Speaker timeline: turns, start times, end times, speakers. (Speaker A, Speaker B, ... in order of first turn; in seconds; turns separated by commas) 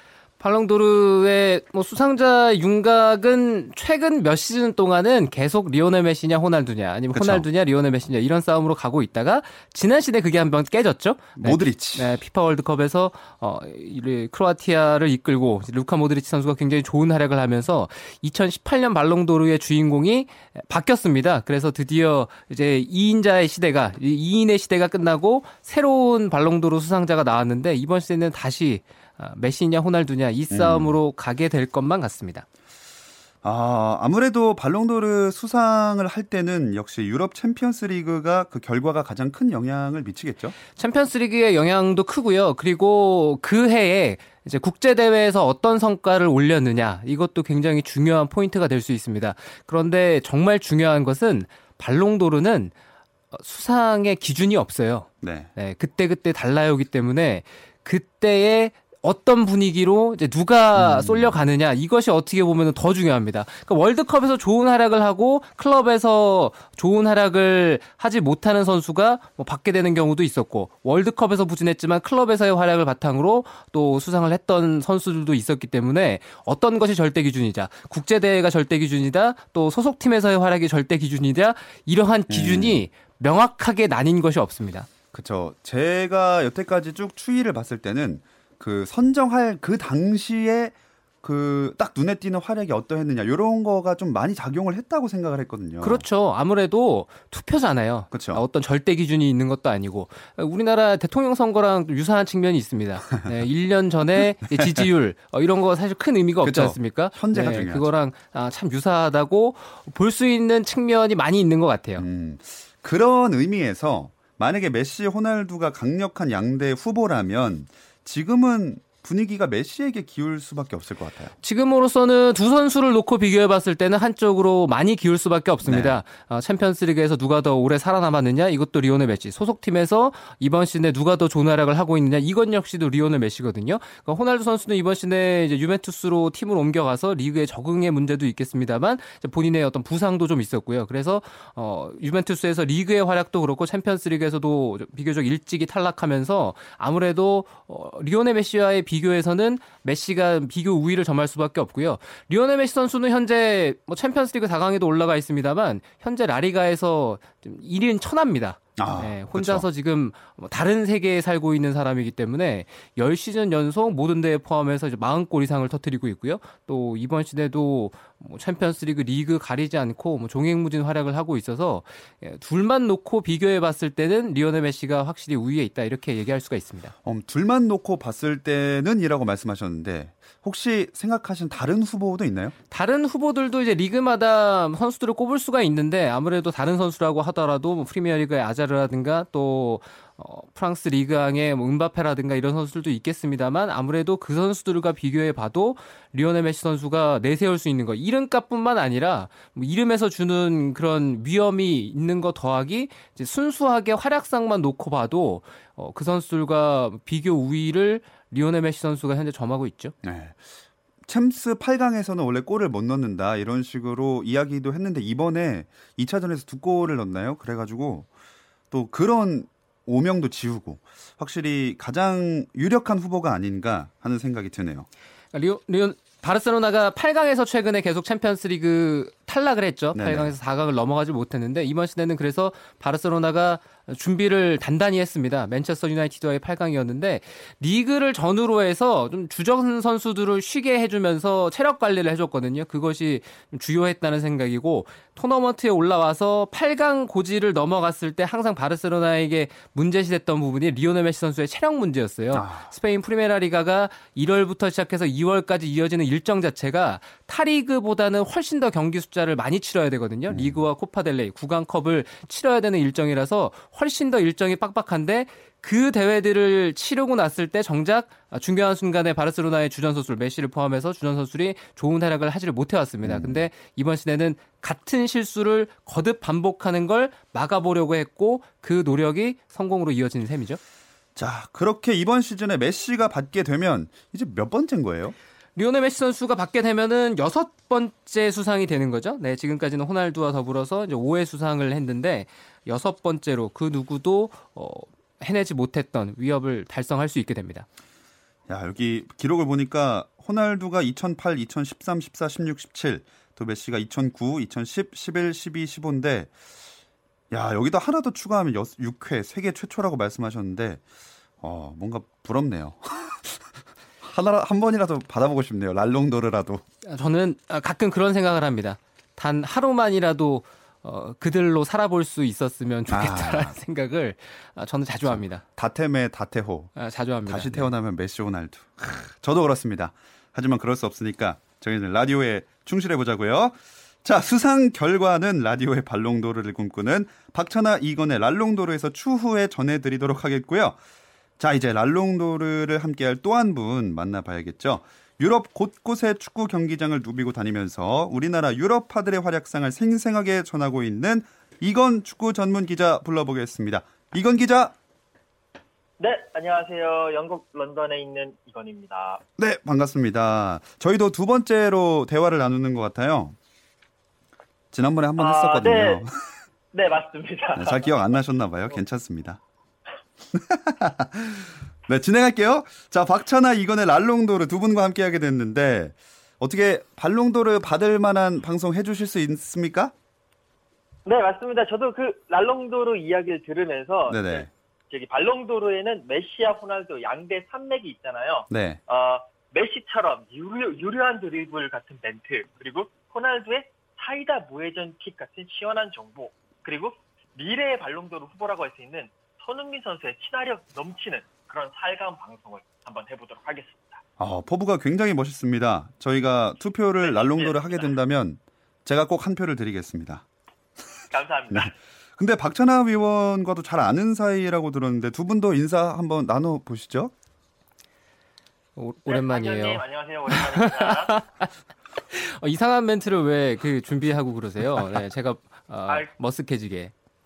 Speaker A: 0.4-32.5, Speaker B: 7.1-7.4, Speaker B: 11.4-12.2, Speaker B: 30.5-30.9, Speaker B: 33.4-40.5, Speaker A: 40.7-52.7, Speaker A: 53.3-84.9, Speaker B: 55.2-55.5, Speaker B: 60.8-61.4, Speaker B: 82.3-82.8, Speaker B: 85.1-96.0, Speaker A: 95.8-112.0, Speaker B: 98.1-98.4, Speaker B: 106.4-107.9, Speaker B: 112.0-121.3, Speaker A: 121.4-176.9, Speaker B: 125.7-126.0, Speaker B: 158.8-159.6, Speaker B: 177.0-182.5, Speaker A: 182.7-209.9, Speaker B: 210.0-210.5, Speaker B: 211.1-218.1, Speaker B: 218.7-224.9, Speaker A: 225.3-280.6, Speaker B: 229.9-230.3, Speaker B: 252.3-252.7, Speaker B: 260.3-260.6, Speaker B: 273.0-273.4, Speaker B: 281.1-285.1, Speaker A: 285.6-297.6, Speaker B: 298.5-306.3, Speaker B: 307.3-310.8, Speaker B: 311.4-316.6, Speaker A: 316.8-325.4, Speaker B: 322.9-323.5, Speaker B: 325.0-326.7, Speaker A: 326.8-327.7, Speaker B: 327.3-340.8, Speaker B: 341.4-354.7, Speaker C: 356.0-359.2, Speaker B: 359.4-363.4, Speaker B: 364.7-366.1, Speaker C: 365.2-366.1, Speaker C: 366.7-368.1, Speaker B: 367.6-369.4, Speaker B: 370.3-379.9, Speaker C: 381.0-404.0, Speaker B: 384.1-384.5, Speaker B: 388.5-388.8, Speaker B: 404.2-410.2, Speaker C: 407.0-407.9, Speaker C: 411.1-411.7, Speaker B: 411.5-417.1, Speaker A: 418.8-421.5, Speaker C: 419.1-421.2, Speaker A: 422.1-426.9